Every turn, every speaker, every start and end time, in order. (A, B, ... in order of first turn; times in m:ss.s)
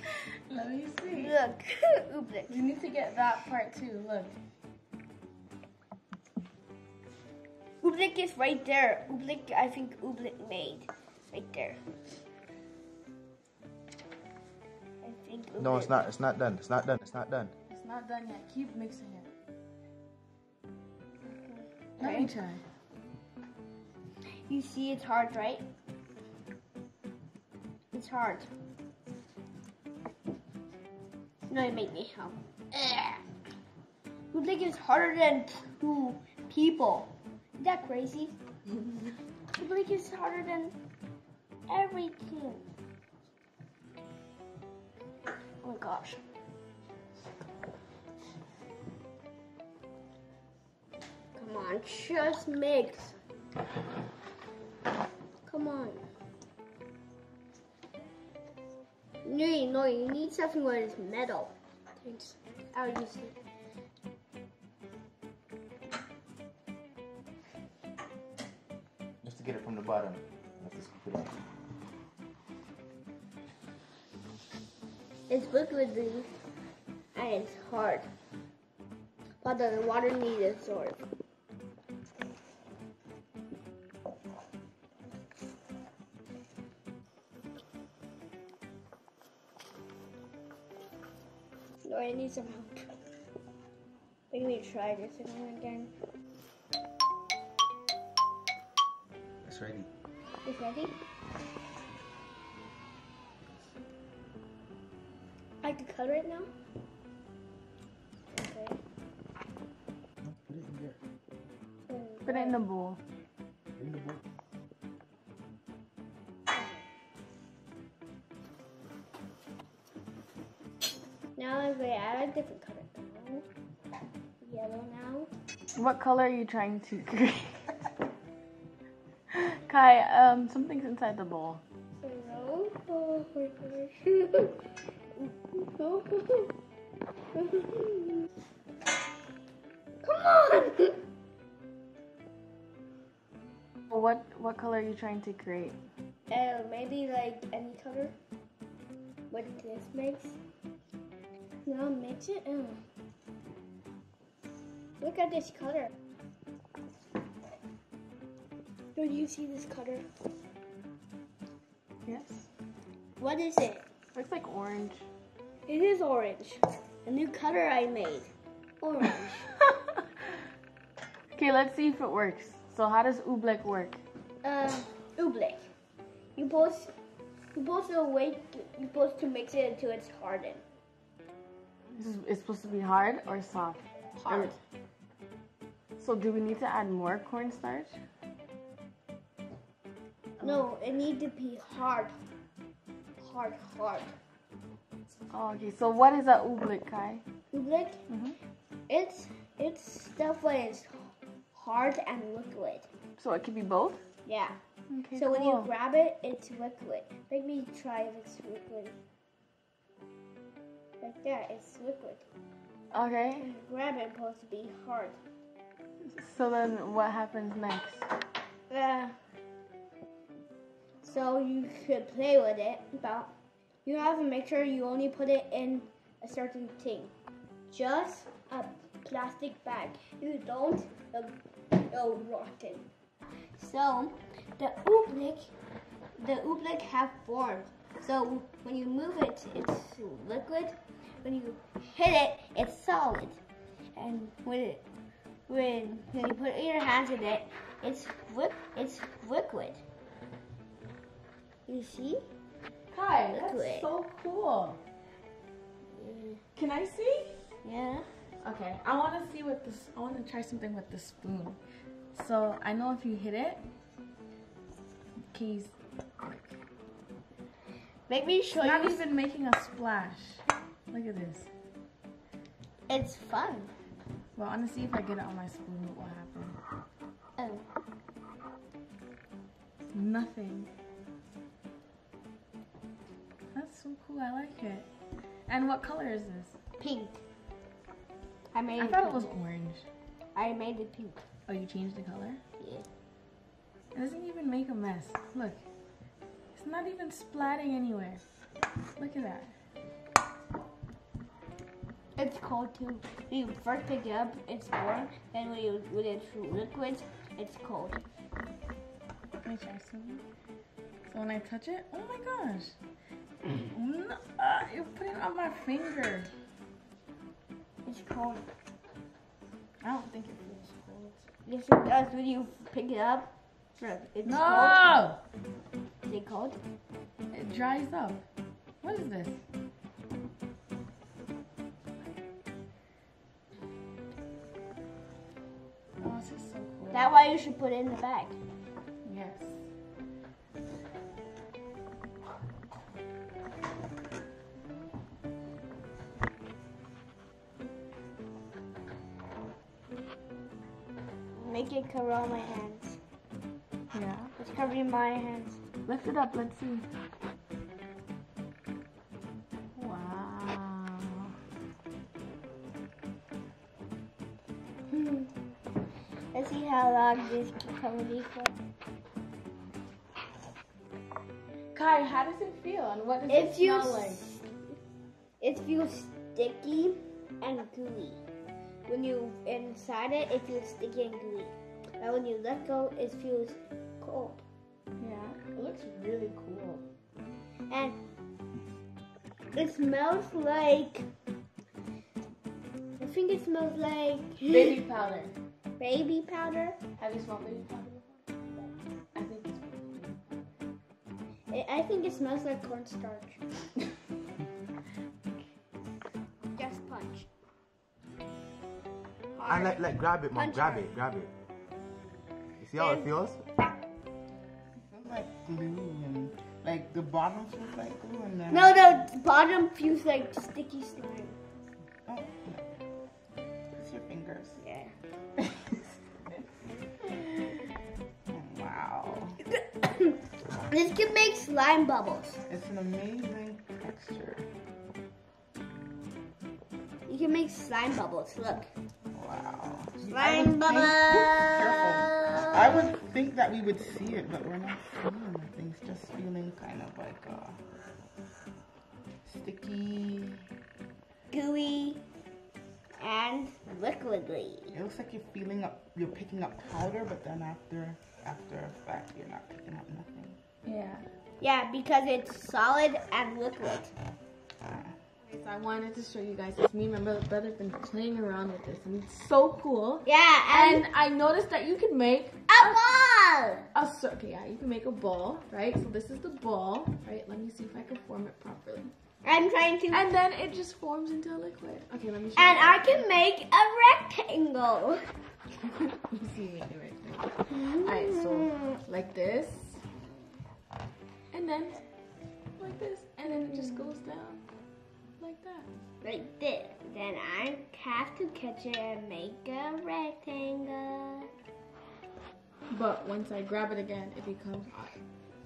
0:00.5-0:01.3 A
0:01.1-0:02.6 B
0:02.5-0:04.4 A
0:07.8-0:11.8 B
0:15.0-0:16.1 B
0:15.6-0:17.5 C
0:17.7-0:19.3 A
0:21.2-0:22.3 B
0:22.0-0:22.6 A
0:24.5-0:25.6 B
0:27.9-0:28.5 B
0:31.5-0:33.2 B
0:34.3-0:38.4 B
0:39.6-0:40.8 B
0:41.7-0:42.6 B
0:45.6-0:46.2 B
0:51.4-0:53.2 B
0:55.5-0:56.1 B
0:59.2-1:03.4 B
1:09.2-1:11.4 C
1:15.3-1:16.3 B
1:17.2-1:18.1 B
1:19.4-1:21.0 B
1:31.8-1:32.9 B
1:34.3-1:35.9 B
1:39.4-1:39.9 C
1:40.4-1:41.0 B
1:45.6-1:46.5 B
1:48.3-1:48.8 B
1:50.2-1:51.0 C
1:51.9-1:52.6 B
1:52.2-1:53.0 A
1:53.8-1:54.2 C
1:56.5-1:56.8 B
2:01.4-2:03.5 B
2:04.4-2:05.3 B
2:05.8-2:07.7 A
2:09.3-2:11.6 A
2:12.0-2:14.6 B
2:15.2-2:16.5 B
2:17.4-2:18.3 B
2:20.0-2:21.0 B
2:23.9-2:25.8 A
2:26.3-2:28.2 B
2:29.3-2:30.4 B
2:31.7-2:32.8 B
2:35.0-2:35.9 B
2:39.0-2:40.1 B
2:42.1-2:42.5 A
2:43.2-2:43.8 B
2:44.2-2:45.1 A
2:45.7-2:49.5 B
2:51.4-2:54.0 A
2:54.4-2:55.7 B
2:56.4-2:56.9 B
2:57.6-3:00.6 B
3:02.0-3:04.6 A
3:04.2-3:04.6 B
3:06.0-3:08.0 A
3:10.4-3:12.1 B
3:13.2-3:14.2 B
3:15.3-3:17.2 A
3:17.5-3:18.0 B
3:18.1-3:18.4 A
3:18.9-3:22.9 B
3:23.2-3:24.0 A
3:24.2-3:24.6 B
3:24.9-3:25.7 A
3:25.2-3:29.0 B
3:31.0-3:32.3 B
3:32.9-3:33.5 A
3:33.4-3:35.2 B
3:36.0-3:38.1 A
3:38.7-3:39.2 B
3:41.0-3:43.3 B
3:43.8-3:47.1 B
3:47.7-3:52.9 B
3:53.6-3:55.5 B
3:56.2-4:03.4 B
4:03.9-4:04.8 B
4:05.5-4:09.8 B
4:11.7-4:12.2 B
4:12.9-4:14.8 A
4:13.3-4:13.9 B
4:15.9-4:16.4 B
4:16.6-4:17.4 A
4:17.6-4:18.1 B
4:18.4-4:21.6 A
4:22.1-4:23.6 A
4:25.3-4:26.6 A
4:28.1-4:29.0 B
4:28.5-4:31.5 A
4:32.9-4:33.7 B
4:34.4-4:36.6 A
4:37.4-4:37.6 B
4:39.9-4:40.7 A
4:43.5-4:44.9 A
4:45.5-4:46.6 A
4:46.8-4:47.2 B
4:48.5-4:49.3 B
4:48.8-4:49.9 A
4:50.3-4:51.2 B
4:51.5-4:52.4 A
4:52.6-4:52.9 B
4:53.9-4:55.6 A
4:56.5-4:58.2 A
4:59.0-4:59.5 A
5:02.2-5:08.0 B
5:09.4-5:10.2 A
5:11.1-5:12.8 A
5:13.5-5:16.3 A
5:17.8-5:18.4 B
5:19.8-5:21.2 A
5:21.5-5:24.9 B
5:24.2-5:25.2 A
5:26.0-5:26.6 B
5:27.3-5:28.2 A
5:28.8-5:29.4 A
5:36.0-5:37.1 A
5:36.9-5:38.4 B
5:39.0-5:39.6 A
5:51.3-5:53.0 B
5:53.9-5:54.3 A
5:54.4-5:55.6 B
5:55.9-5:56.9 A
5:59.8-6:01.3 A
6:04.9-6:05.3 B
6:06.3-6:08.6 B
6:11.7-6:14.2 A
6:13.3-6:14.5 B
6:15.4-6:18.2 B
6:18.9-6:24.4 B
6:25.0-6:26.8 A
6:27.7-6:28.0 B
6:29.5-6:31.1 B
6:33.0-6:34.8 B
6:34.5-6:35.4 A
6:35.8-6:36.8 B
6:37.0-6:38.2 A
6:39.2-6:40.4 A
6:41.5-6:43.4 B
6:46.5-6:47.3 B
6:49.4-6:50.9 B
6:49.5-6:51.3 C
6:52.6-6:53.4 C
6:52.8-6:53.1 B
6:54.8-6:59.0 D
6:58.5-7:01.4 B
7:02.1-7:02.6 D
7:03.8-7:04.6 D
7:04.6-7:04.9 B
7:08.3-7:09.4 D
7:09.8-7:10.2 B
7:10.7-7:12.4 B
7:12.5-7:14.5 D
7:17.1-7:18.7 B
7:19.1-7:27.6 D
7:20.1-7:22.8 B
7:29.2-7:30.4 D
7:31.3-7:32.0 B
7:33.0-7:34.8 B
7:34.7-7:40.4 D
7:40.7-7:41.0 A
7:41.4-7:43.9 B
7:44.6-7:44.9 D
7:45.2-7:52.8 A
7:50.0-7:50.9 B
7:52.5-7:53.7 B
7:53.7-7:58.9 A
7:59.2-8:00.1 B
7:59.9-8:03.0 A
8:02.4-8:05.0 B
8:05.6-8:09.8 A
8:07.5-8:08.8 B
8:11.3-8:11.8 A
8:12.6-8:14.4 A
8:15.2-8:15.7 A
8:16.0-8:21.3 B
8:22.7-8:25.0 A